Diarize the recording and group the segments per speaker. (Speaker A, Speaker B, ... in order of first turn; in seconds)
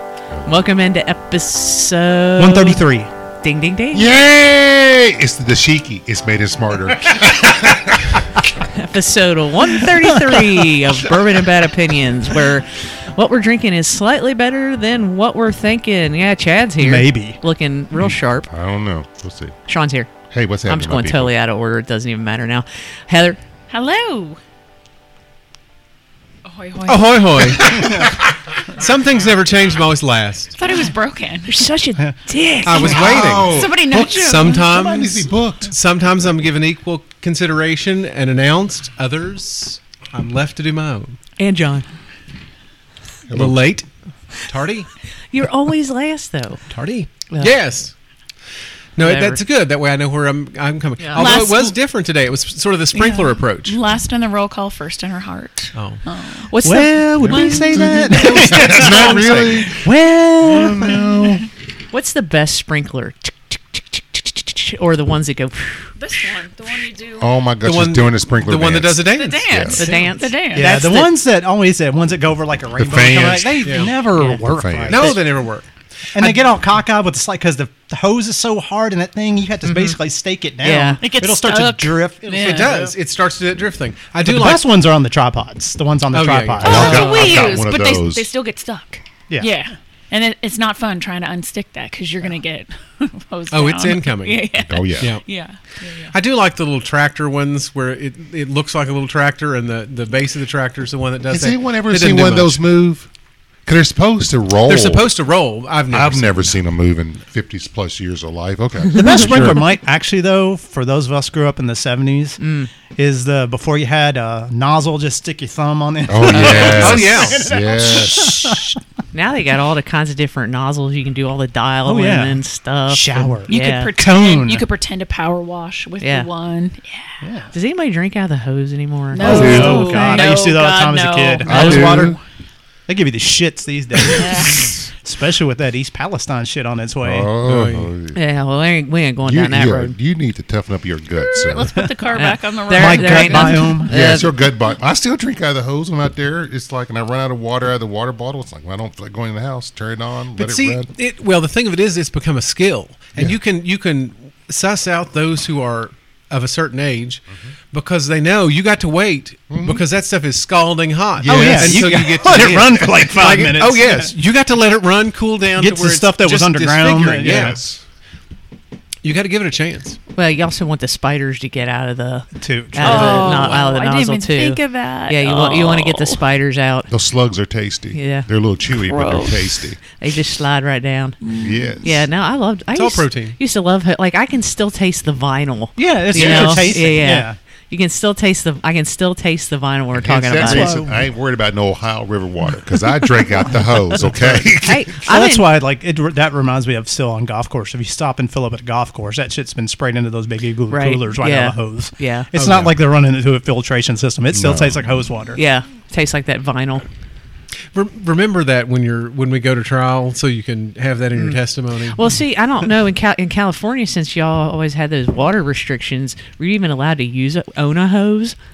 Speaker A: 0.5-2.9, 3.4-4.1, 8.7-18.5, 19.7-20.1, 20.7-23.4, 31.5-33.0, 41.4-41.9, 45.3-46.6, 47.3-47.6, 49.0-49.4, 51.0-51.4, 56.5-58.1, 61.9-66.4, 69.7-71.1, 74.2-74.4, 79.6-80.0, 80.6-81.0, 112.4-112.7, 119.1-123.9, 126.0-126.3, 127.5-130.2, 138.1-139.9, 142.1-144.3, 170.2-176.9, 177.9-178.3, 180.0-181.2, 181.8-190.8, 194.6-195.6, 200.7-202.3, 205.3-206.9, 211.2-218.4
Speaker B: 2.4-3.1, 9.9-10.7, 16.8-17.4, 56.6-61.4, 70.5-75.2, 76.1-83.0, 84.2-87.0, 89.3-89.5, 108.9-112.4, 112.9-118.8, 121.8-124.7, 127.2-127.5, 129.2-132.2, 132.9-137.3, 142.7-143.9, 161.3-164.1, 165.5-167.6, 172.3-173.2, 185.8-187.4, 190.4-191.1, 194.9-205.4
Speaker C: 3.9-8.3, 18.0-19.6, 20.3-21.3, 32.8-35.7, 43.3-43.6, 57.2-61.5, 67.2-69.8, 72.8-75.2, 86.6-88.3, 94.7-95.1, 101.3-103.1, 103.7-105.1, 105.9-109.6, 116.1-118.7, 129.2-130.0, 131.4-132.2, 137.0-138.2, 139.2-141.8, 143.4-150.9, 159.5-159.8, 161.2-162.0, 167.2-167.8, 176.9-179.8, 181.4-182.0, 189.9-194.9, 202.3-202.8, 204.3-204.8
Speaker D: 23.7-24.4, 26.4-27.9, 30.6-31.6, 32.7-35.1, 51.2-51.8, 52.9-56.5, 57.3-57.6, 66.0-67.3, 69.1-71.0, 81.0-82.7, 86.7-96.1, 123.5-127.2, 129.1-132.2, 134.1-134.7, 141.2-143.8, 172.8-176.2, 178.7-179.6, 181.2-181.8
Speaker E: 26.9-30.6, 32.6-41.2, 43.3-44.9, 46.7-47.9, 49.0-53.8, 55.8-56.0, 58.6-59.3, 67.6-69.7, 73.6-74.0, 74.9-76.4, 82.3-84.7, 86.1-87.6, 93.5-95.2, 96.0-102.6, 104.6-106.6, 116.3-117.4, 137.4-137.9, 150.4-167.6, 169.0-170.0, 172.8-173.6, 182.7-183.4, 207.7-212.0